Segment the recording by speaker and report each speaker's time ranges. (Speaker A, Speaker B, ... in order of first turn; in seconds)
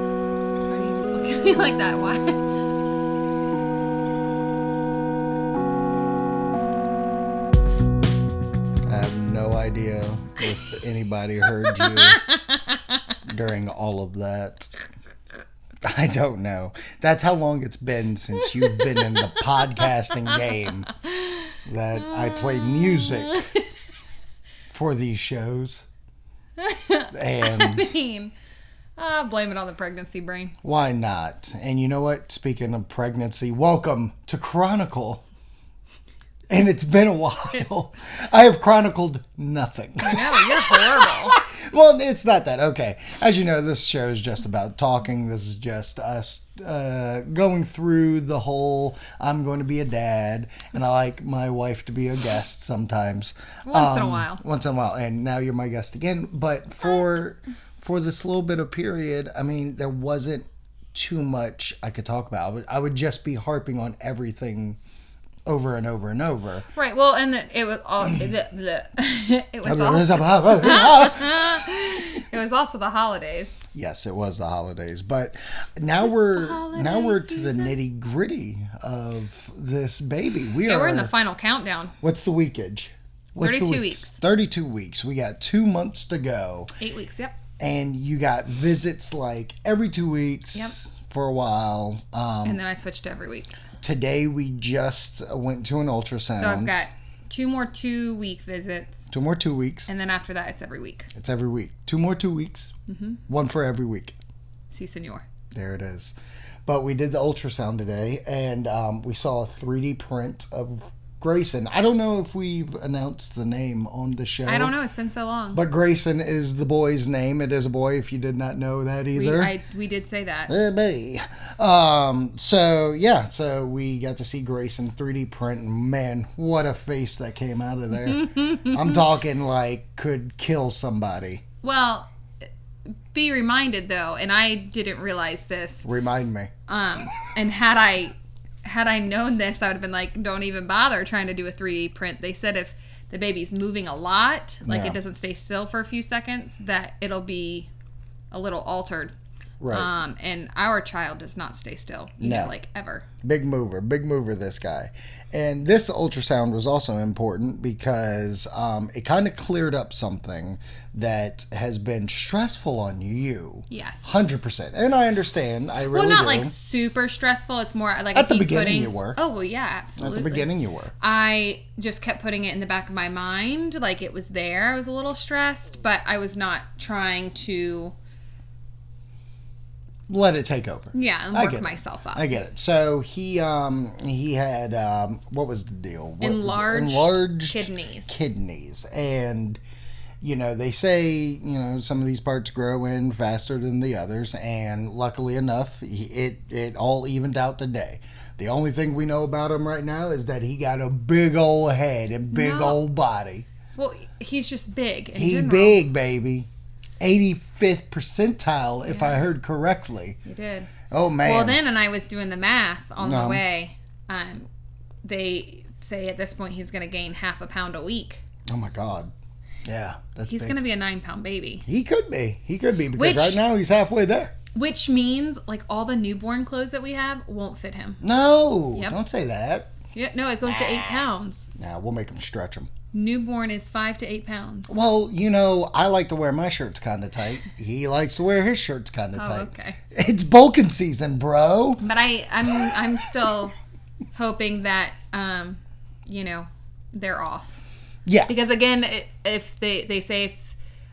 Speaker A: 0.7-2.4, 11.7-13.0, 18.7-20.5, 21.1-21.4, 22.1-23.6, 26.6-28.3, 29.0-30.5, 40.0-41.4, 53.6-54.4, 66.7-73.6, 76.0-77.8, 80.6-81.9, 83.4-84.2, 86.8-87.4, 92.4-93.5, 96.3-99.1, 99.9-101.1, 102.9-103.2, 104.7-105.2, 114.5-115.6, 119.1-120.5, 131.6-132.1, 133.1-135.9, 136.7-147.7, 148.3-149.1, 149.7-153.0, 163.7-164.1, 165.9-170.5, 171.0-177.9, 180.9-182.3, 186.2-188.1, 202.3-202.8, 203.7-205.8, 208.8-209.2, 210.2-210.7, 211.2-214.5, 215.0-218.2, 220.3-221.7, 222.9-223.4, 224.5-228.0, 229.9-231.5, 232.9-234.7, 239.1-239.8, 241.8-243.5, 244.1-247.6, 248.3-250.5
Speaker B: 8.8-12.2, 13.2-14.7, 15.8-20.9, 21.6-23.4, 24.7-25.9, 27.1-27.9, 30.6-35.2, 36.5-64.8, 65.4-66.7, 69.6-71.4, 73.7-81.1, 82.0-86.7, 87.6-92.6, 93.8-96.8, 99.1-99.9, 101.1-102.7, 103.3-104.2, 105.5-106.1, 106.7-114.7, 115.5-119.5, 120.5-131.4, 135.8-136.5, 144.7-145.0, 149.6-149.9, 152.2-152.5, 153.2-166.5, 168.1-169.2, 170.0-170.9, 180.1-189.6, 190.2-203.4, 205.1-206.5, 207.0-210.2, 210.9-211.6, 213.0-213.4, 218.5-219.1, 219.6-220.6, 221.7-224.3, 228.0-229.7, 231.6-232.7, 234.7-241.8, 248.1-248.3